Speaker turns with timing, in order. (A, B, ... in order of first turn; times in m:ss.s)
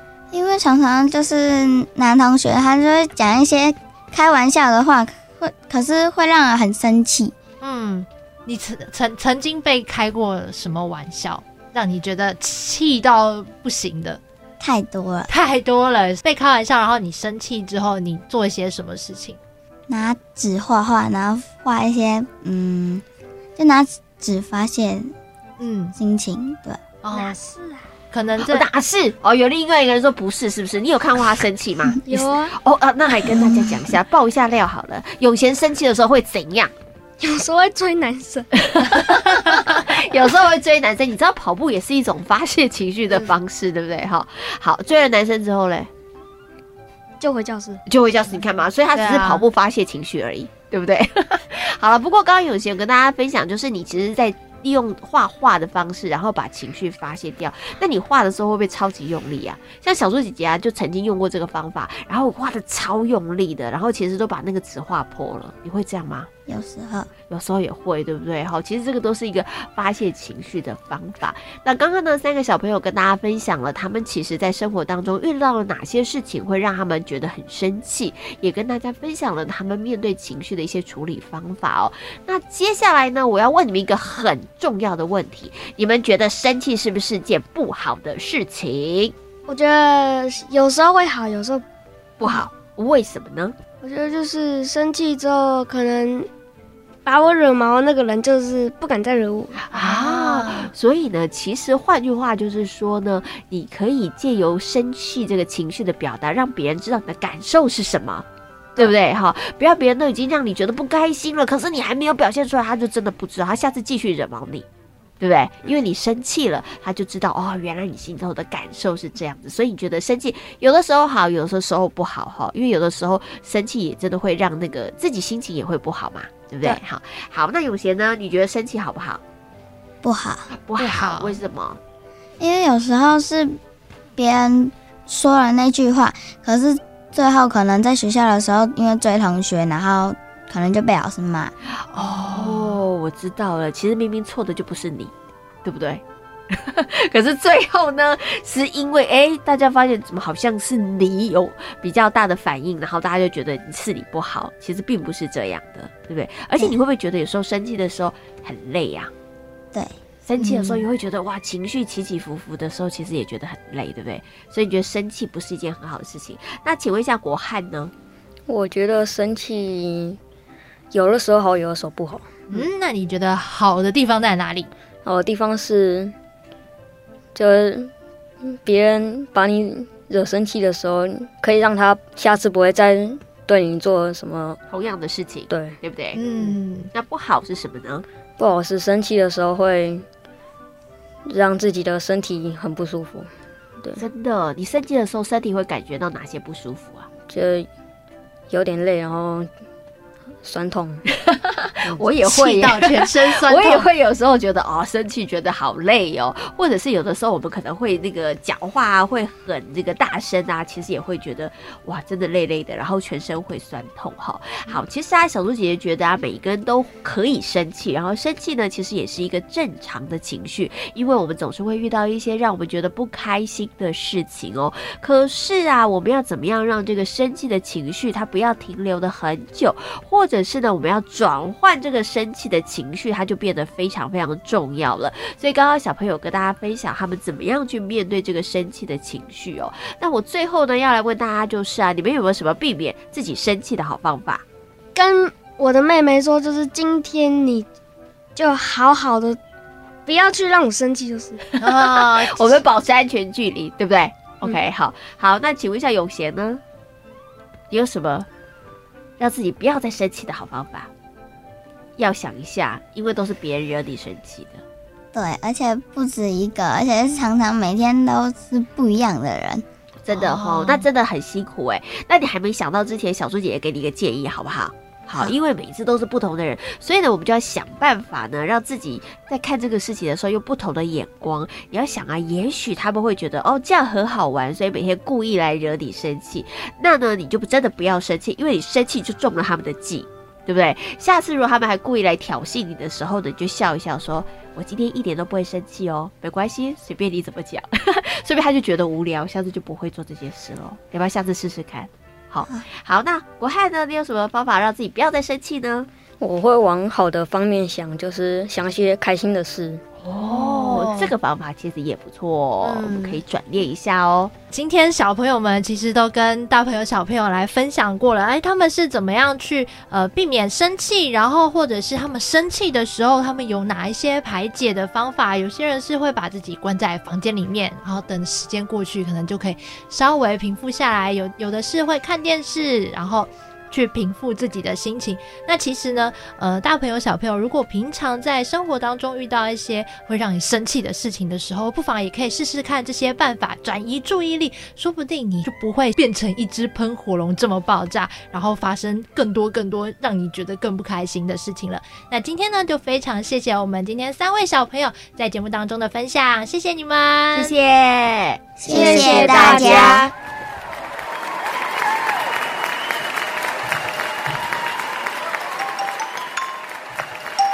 0:00.3-0:07.3 A
0:07.6-0:14.2 B
0:14.6-0:15.3 A
0:15.3-0:19.4 B
0:19.9-0:23.0 A
0:23.6-0:25.1 A
0:25.6-0:25.9 B
0:26.0-0:26.8 A
0:27.0-0:27.3 B
0:27.1-0:27.9 C
0:28.1-0:28.7 B
0:28.4-0:36.7 D
0:32.0-0:32.5 C
0:33.3-0:33.9 A
0:37.2-0:38.5 C
0:38.6-0:45.9 D
0:47.2-0:47.8 C
0:47.9-1:06.3 D
0:48.9-0:49.4 B
1:06.5-1:07.1 A
1:07.3-1:29.1 D
1:29.5-1:31.6 C
1:32.2-1:33.6 D
1:33.8-1:36.3 C
1:37.0-1:39.6 C
1:39.7-1:48.2 D
1:39.8-1:40.7 B
1:48.8-1:54.6 D
1:55.2-2:09.2 D
2:10.0-2:10.5 A
2:10.5-2:11.8 D
2:10.8-2:11.4 B
2:12.4-2:13.6 A
2:14.2-2:21.5 A
2:21.8-2:25.1 D
2:22.1-2:22.7 B
2:25.6-2:39.1 D
2:40.2-2:47.9 D
2:40.4-2:40.8 B
2:48.5-2:50.2 E
2:50.9-2:52.6 E
2:52.5-2:54.7 B
2:55.0-2:56.2 E
2:57.3-2:57.9 E
2:58.4-3:04.6 E
3:04.7-3:06.2 D
3:05.5-3:05.8 E
3:06.1-3:06.9 B
3:06.9-3:08.0 D
3:08.4-3:10.0 E
3:11.2-3:14.0 E
3:14.0-3:17.1 D
3:17.3-3:17.7 E
3:18.5-3:19.5 E
3:20.4-3:21.0 E
3:21.6-4:04.4 D
3:22.2-3:23.9 B
4:04.9-4:07.7 C
4:08.4-4:09.4 C
4:10.0-4:11.4 C
4:11.5-4:16.6 D
4:11.6-4:12.6 B
4:17.7-4:18.3 D
4:19.2-4:20.9 D
4:22.0-4:24.6 D
4:25.1-4:29.6 A
4:30.0-5:05.9 D
4:30.1-4:30.8 B
5:06.2-5:09.8 E
5:10.0-5:14.3 D
5:10.2-5:11.1 B
5:12.6-5:13.2 B
5:14.5-5:57.5 B
5:57.3-6:00.1 D
5:58.6-6:00.1 A
5:58.7-6:00.1 E